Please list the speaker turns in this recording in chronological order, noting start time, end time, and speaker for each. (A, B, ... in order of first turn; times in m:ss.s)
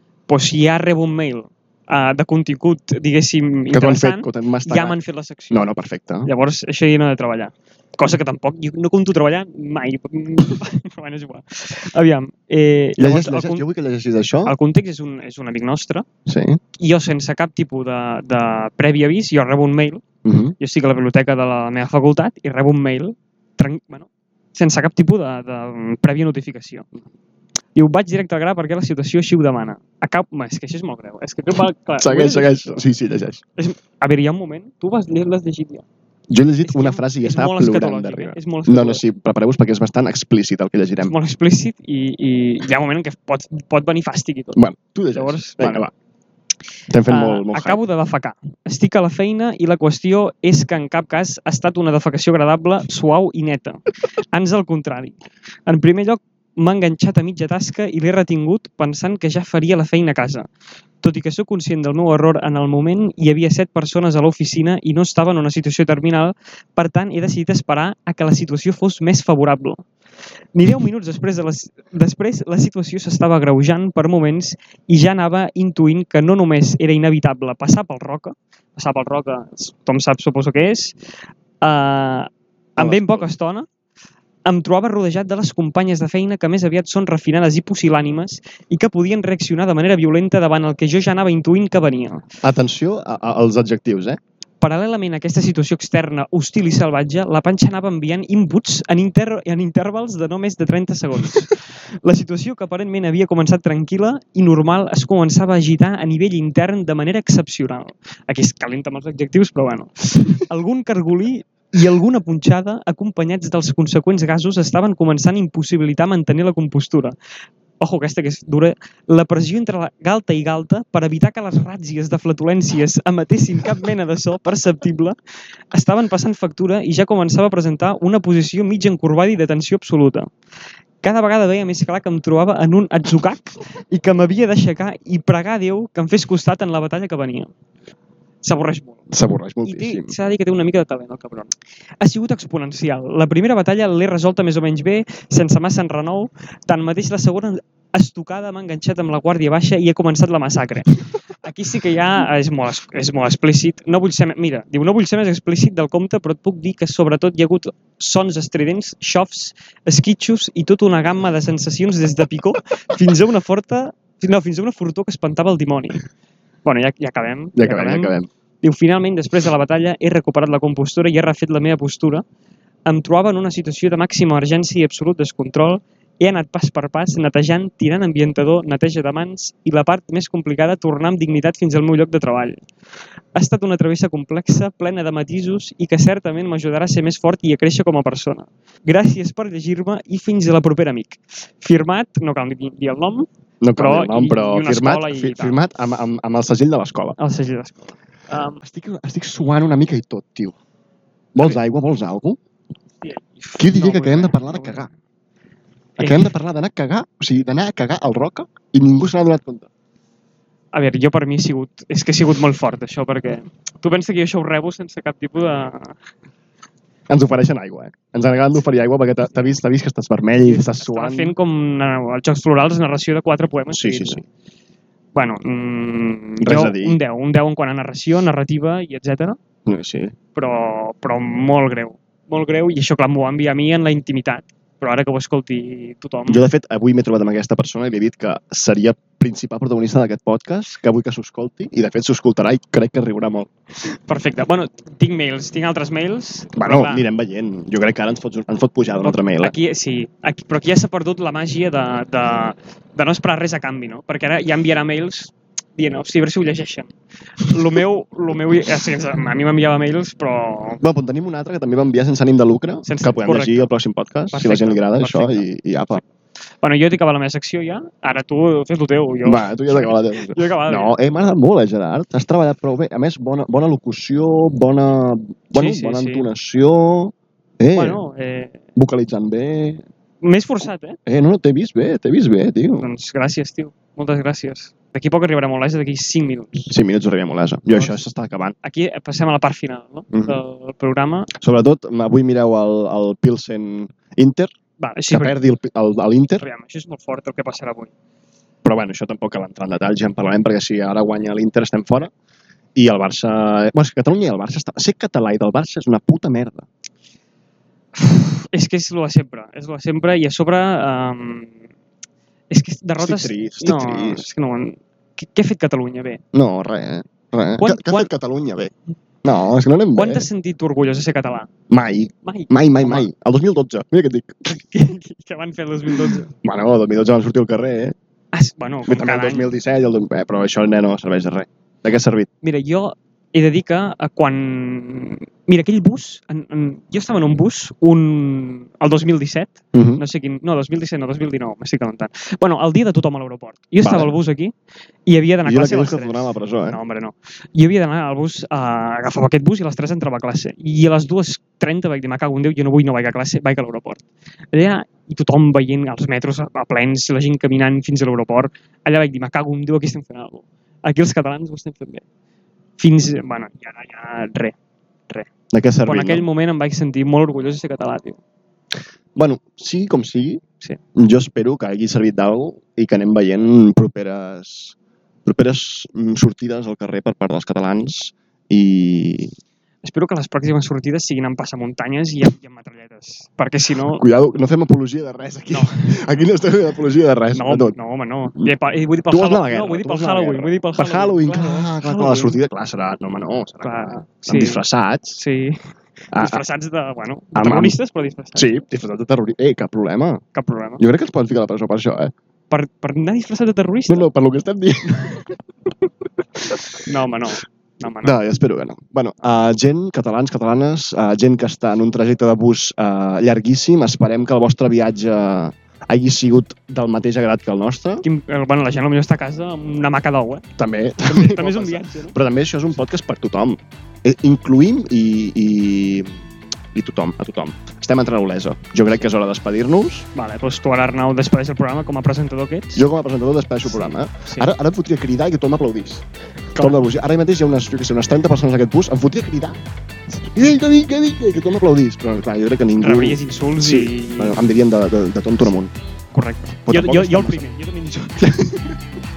0:00.3-0:05.6 A
0:03.7-0:05.0 B
0:05.5-0:06.3 B
0:06.2-0:13.6 A
0:13.0-0:14.5 B
0:14.4-0:16.0 A
0:16.2-0:16.6 B
0:16.8-0:20.0 A
0:20.2-0:20.6 B
0:20.6-0:26.9 A
0:27.8-0:32.9 A
0:32.0-0:33.4 B
0:33.6-0:35.8 A
0:36.3-0:41.1 B
0:36.7-0:39.0 A
0:41.0-0:44.6 A
0:44.5-0:45.9 B
0:45.1-0:45.9 A
0:46.9-0:47.8 B
0:47.0-1:00.5 A
1:01.0-1:09.8 A
1:10.5-1:21.0 A
1:21.6-1:23.7 A
1:22.8-1:23.3 B
1:24.4-1:32.2 A
1:32.4-1:34.2 B
1:34.6-1:57.2 A
1:57.8-2:05.2 A
2:05.7-2:10.3 A
2:11.0-2:17.5 A
2:18.4-2:19.0 A
2:19.1-2:20.2 B
2:19.6-2:46.0 A
2:46.6-2:52.2 A
2:47.6-2:48.3 B
2:52.9-3:02.6 A
3:03.3-3:15.6 A
3:13.6-3:17.2 B
3:17.2-3:18.6 A
3:18.6-3:20.5 B
3:21.4-3:22.4 B
3:23.0-3:24.8 A
3:23.6-3:24.9 B
3:26.0-3:29.7 B
3:26.0-3:26.3 A
3:30.7-3:36.0 A
3:37.1-3:41.4 B
3:40.4-3:44.2 A
3:43.7-3:44.2 B
3:45.1-3:49.4 A
3:46.4-3:47.0 B
3:49.6-3:50.2 B
3:50.4-3:56.5 A
3:56.3-4:03.5 B
4:03.8-4:07.0 A
4:06.6-4:09.5 B
4:09.0-4:20.8 A
4:20.8-4:26.0 B
4:22.8-4:23.7 A
4:24.3-4:26.0 A
4:26.6-4:31.0 A
4:29.2-4:38.0 B
4:35.5-4:36.2 A
4:37.8-4:38.6 A
4:38.8-4:39.8 B
4:40.2-4:41.0 A
4:41.0-4:42.9 B
4:42.8-4:46.7 A
4:46.7-4:48.6 B
4:47.7-4:48.0 A
4:48.6-4:51.3 A
4:50.1-4:50.4 B
4:51.3-4:54.5 B
4:54.8-4:55.4 A
4:55.1-4:56.5 B
4:56.4-4:57.9 A
4:58.6-5:02.1 B
5:02.8-5:06.7 B
5:08.0-5:11.5 A
5:12.5-5:16.2 A
5:13.0-5:14.3 B
5:16.3-5:18.7 B
5:17.6-5:18.1 A
5:19.2-5:20.3 B
5:20.0-5:21.5 A
5:21.7-5:24.5 B
5:22.2-5:23.1 A
5:24.5-5:26.3 A
5:26.1-5:28.0 B
5:28.3-5:29.5 A
5:28.9-5:32.3 B
5:32.4-5:44.5 A
5:39.7-5:40.0 B
5:43.8-5:44.1 B
5:45.0-6:02.0 A
5:45.4-5:46.8 B
6:02.8-6:04.6 A
6:05.5-6:06.2 B
6:05.8-6:08.2 A
6:09.2-6:10.4 B
6:11.0-6:19.3 B
6:19.8-6:24.0 A
6:23.9-6:27.8 B
6:27.3-6:32.4 A
6:29.1-6:35.2 B
6:33.6-6:34.6 A
6:35.2-6:35.6 A
6:36.1-6:36.4 B
6:36.2-6:38.6 A
6:37.3-6:37.8 B
6:38.4-6:40.2 B
6:40.3-6:40.8 A
6:40.8-6:42.1 B
6:42.5-6:44.1 A
6:43.9-6:45.4 B
6:46.8-6:48.2 A
6:48.0-6:58.0 B
6:58.0-7:00.4 A
7:00.6-7:10.1 B
7:01.0-7:02.2 A
7:10.1-7:12.8 A
7:12.8-7:16.0 B
7:13.7-7:14.5 A
7:16.5-7:19.6 B
7:20.2-7:25.7 B
7:22.8-7:24.4 A
7:26.1-7:28.4 A
7:26.7-7:27.4 B
7:28.2-7:28.8 B